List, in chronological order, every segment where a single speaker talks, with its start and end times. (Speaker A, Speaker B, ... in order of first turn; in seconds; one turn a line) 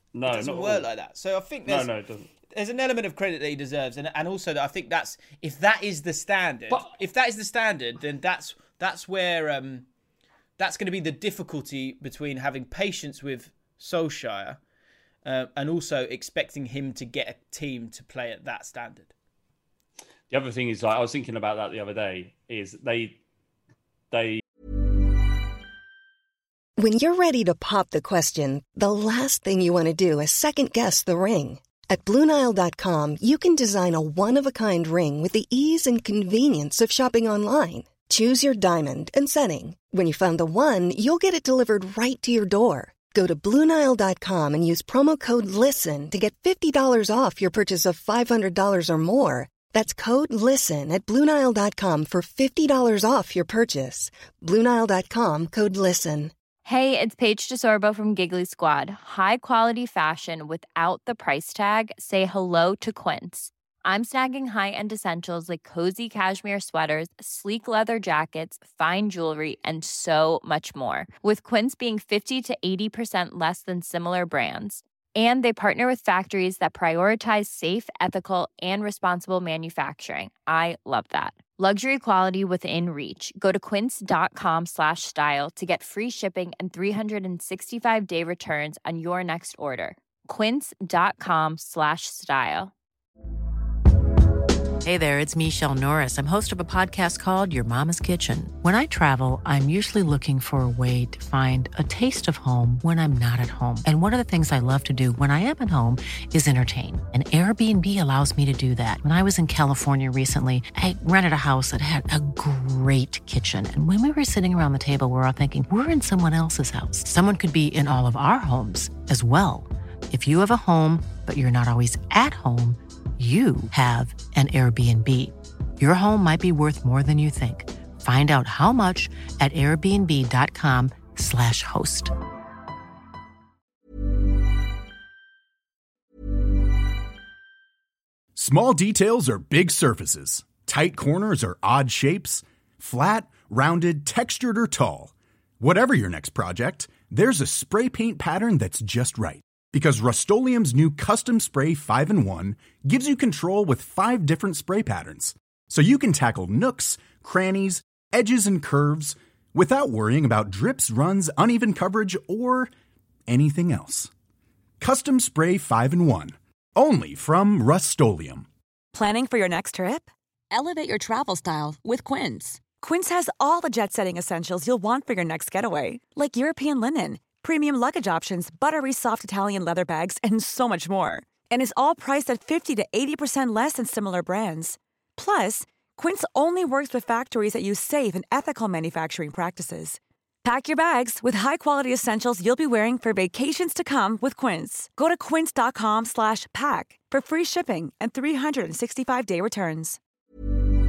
Speaker A: 0.1-0.9
Speaker B: 0.3-1.9
Speaker A: 1.6-2.3
Speaker B: 2.5-9.8
Speaker B: 10.6-14.6
Speaker B: 15.2-19.1
Speaker A: 20.3-23.2
Speaker A: 24.1-24.4
Speaker C: 26.8-56.3
Speaker D: 56.6-92.7
Speaker E: 94.8-132.1
Speaker F: 138.3-162.7
Speaker F: 163.3-164.1
Speaker F: 164.8-168.5
Speaker G: 168.9-200.0